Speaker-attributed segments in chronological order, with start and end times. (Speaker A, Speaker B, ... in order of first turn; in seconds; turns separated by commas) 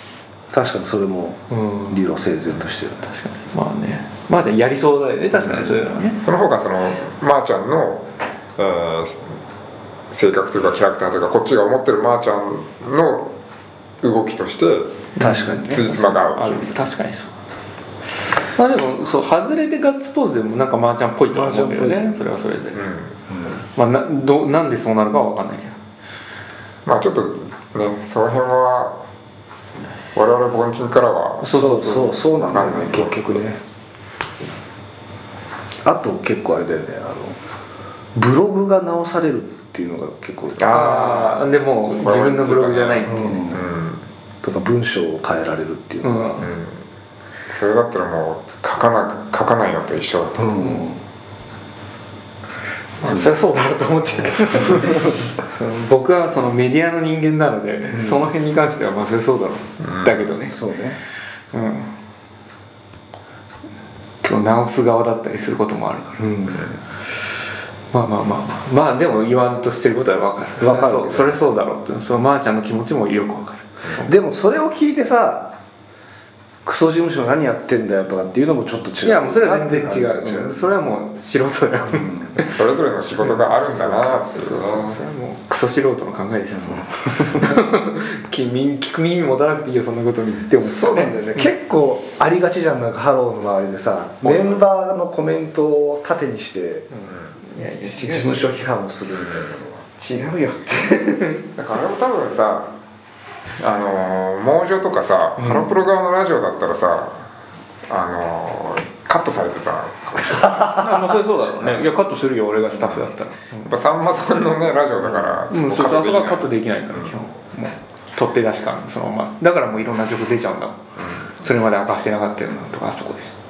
Speaker A: 0.5-3.0, Speaker B: 1.5-2.1, Speaker B: 3.0-6.2, Speaker C: 5.3-9.4, Speaker C: 10.1-13.3, Speaker C: 14.0-16.8, Speaker B: 15.1-17.3, Speaker A: 15.2-15.9, Speaker B: 18.4-22.9, Speaker A: 21.3-22.2, Speaker C: 22.7-23.2, Speaker A: 23.3-23.6, Speaker B: 23.7-25.8, Speaker C: 26.8-29.0, Speaker C: 30.1-33.4, Speaker B: 31.4-32.9, Speaker A: 31.5-33.6, Speaker A: 35.8-37.4, Speaker A: 38.1-40.8, Speaker C: 40.6-44.0, Speaker B: 40.7-43.5, Speaker A: 43.0-43.6, Speaker A: 44.4-46.4, Speaker B: 46.0-46.5, Speaker C: 46.4-46.8, Speaker C: 47.5-50.5, Speaker A: 50.4-51.0, Speaker B: 50.6-50.8, Speaker B: 53.0-60.6, Speaker A: 53.0-53.3, Speaker A: 57.9-58.2, Speaker C: 59.8-60.4, Speaker A: 60.5-61.0, Speaker B: 61.5-61.9, Speaker B: 64.2-66.2, Speaker A: 66.2-66.8, Speaker B: 67.9-74.1, Speaker A: 70.6-71.4, Speaker A: 74.0-75.5, Speaker A: 76.6-80.7, Speaker B: 79.0-82.5, Speaker A: 81.9-82.4, Speaker C: 82.4-85.0, Speaker A: 83.2-84.9, Speaker B: 83.7-91.5, Speaker A: 86.5-87.6, Speaker A: 90.6-96.9, Speaker C: 94.2-94.6, Speaker B: 96.9-98.6, Speaker C: 97.1-97.3, Speaker A: 97.6-99.8, Speaker C: 99.1-99.5, Speaker B: 100.0-101.4, Speaker C: 101.5-102.7, Speaker C: 103.6-107.2, Speaker B: 105.4-105.7, Speaker C: 107.9-111.8, Speaker B: 110.7-113.7, Speaker C: 112.6-113.1, Speaker C: 113.6-117.2, Speaker B: 115.5-120.8, Speaker C: 121.0-121.4, Speaker B: 121.4-123.3